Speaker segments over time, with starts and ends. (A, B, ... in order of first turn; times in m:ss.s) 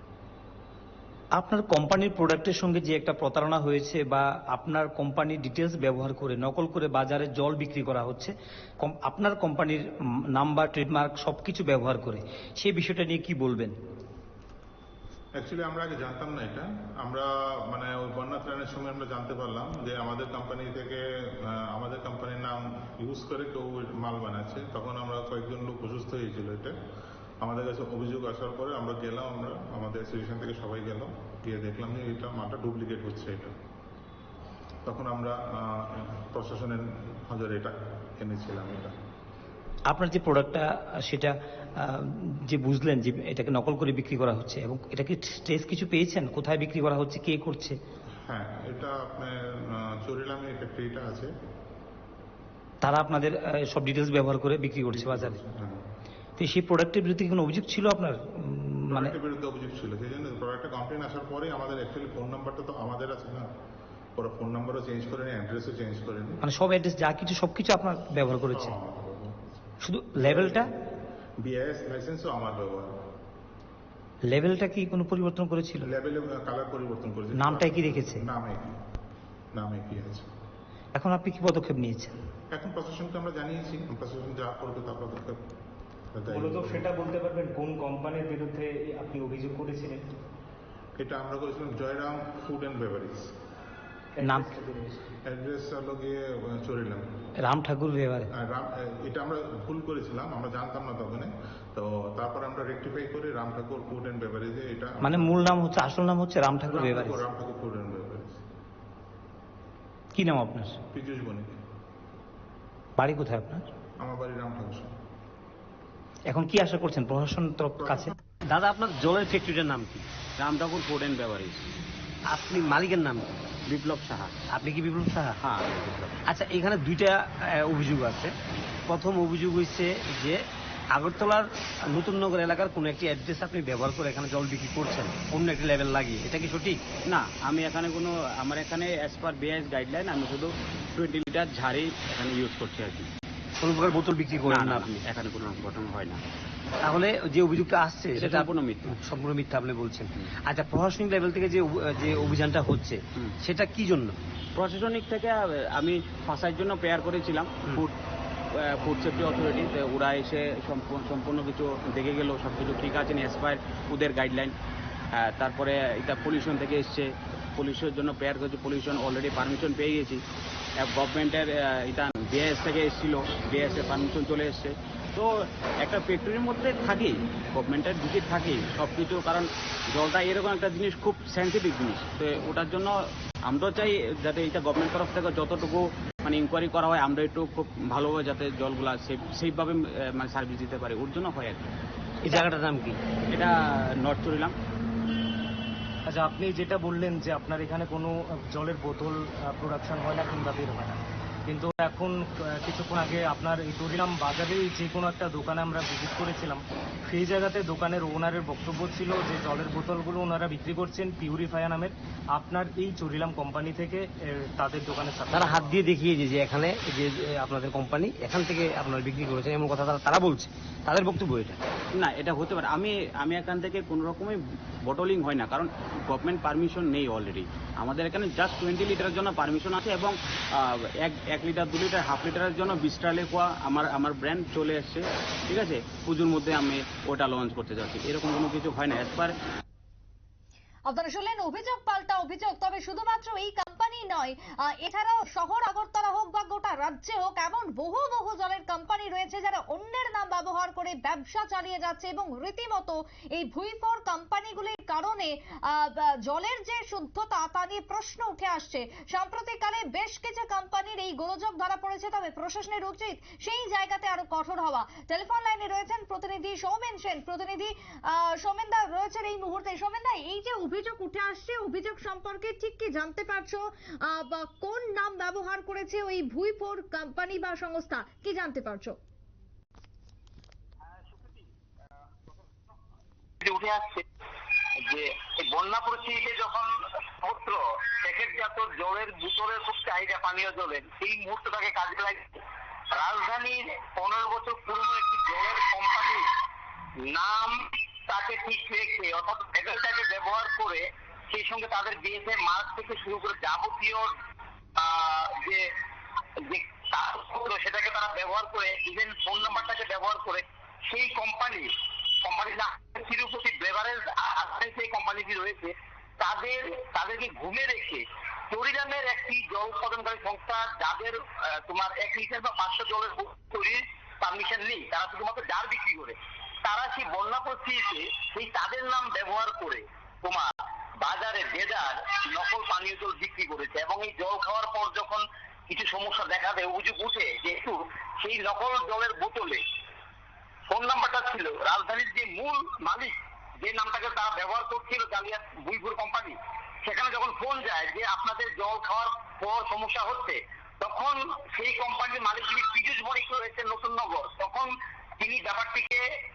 0:01.4-0:09.8 A
0:10.4-0:13.7 A
0:15.4-0:26.7 B
0:27.4-0:33.5 B
0:34.8-0:38.9 B
0:39.9-0:47.8 A
0:48.3-0:51.3 B
0:52.8-0:55.4 A
0:54.9-0:55.8 B
0:56.4-0:59.1 A
0:58.9-1:03.5 B
1:04.2-1:06.4 B
1:06.4-1:08.7 A
1:08.5-1:09.4 B
1:09.8-1:10.7 A
1:10.2-1:10.7 B
1:11.4-1:12.9 B
1:14.3-1:15.9 A
1:15.8-1:18.8 B
1:17.4-1:18.2 A
1:19.5-1:20.3 B
1:20.9-1:22.1 A
1:22.5-1:25.4 B
1:26.1-1:26.9 B
1:26.3-1:30.1 C
1:31.0-1:33.3 B
1:34.2-1:35.1 C
1:34.2-1:34.5 A
1:35.2-1:37.0 B
1:37.4-1:38.3 A
1:38.3-1:45.4 B
1:45.0-1:47.2 A
1:46.7-1:48.4 B
1:50.1-1:50.8 A
1:50.9-1:51.6 B
1:53.0-1:53.6 A
1:54.0-1:54.9 B
1:56.3-1:58.1 A
1:58.5-2:00.0 D
2:00.4-2:01.7 E
2:02.3-2:03.3 D
2:03.7-2:04.4 E
2:04.5-2:05.4 D
2:05.4-2:06.2 E
2:06.3-2:08.3 D
2:08.9-2:16.8 D
2:17.1-2:23.1 E
2:23.6-2:25.0 D
2:24.4-2:26.2 E
2:26.8-2:28.5 D
2:28.1-2:29.0 E
2:29.2-2:34.2 D
2:34.6-2:37.9 E
2:38.6-2:44.5 E
2:45.2-2:50.2 E
2:50.8-2:55.3 E
2:55.8-3:02.9 E
3:03.4-3:11.7 E
3:12.2-3:13.0 D
3:13.3-3:14.5 E
3:16.1-3:35.9 C
3:35.3-3:41.6 D
3:42.0-3:59.3 E
4:00.9-4:39.0 F
4:40.9-4:41.4 G
4:43.4-4:44.0 G
4:44.8-4:56.3 G
4:57.0-5:04.1 G
5:04.8-5:05.6 G
5:06.4-5:39.6 G
5:40.7-5:56.0 G